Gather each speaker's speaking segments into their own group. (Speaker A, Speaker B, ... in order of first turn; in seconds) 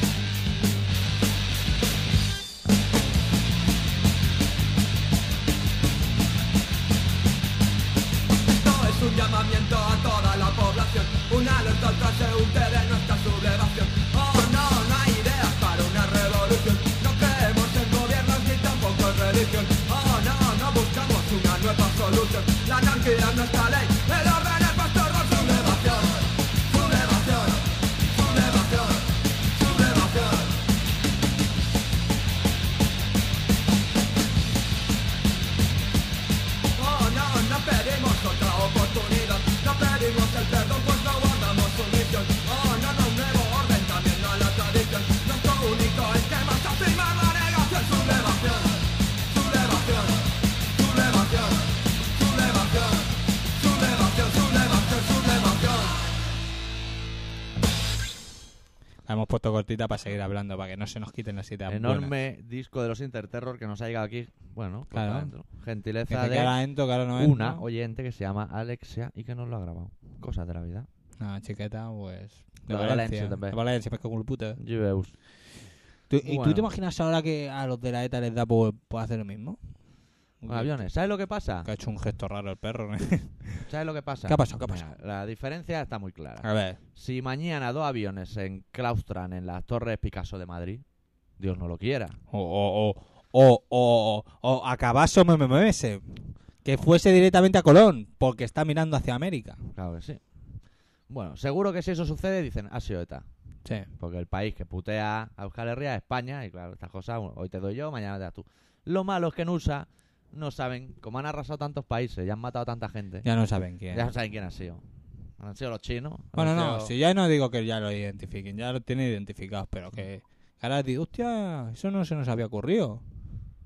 Speaker A: 8.5-30.6, 36.8-56.0
Speaker B: 59.0-62.1, 64.9-65.3, 66.1-67.6, 71.2-74.6, 76.1-79.8, 80.4-80.9, 81.6-83.7, 84.3-84.9, 86.4-86.8, 92.3-96.0, 96.6-99.6, 113.2-114.1, 116.4-123.0
Speaker C: 61.7-70.9, 72.7-73.6, 74.6-75.1, 76.2-76.7, 80.5-81.7, 83.7-90.8, 91.4-92.2, 99.7-100.2, 101.1-103.3, 104.0-113.3, 113.9-114.8, 115.4-116.9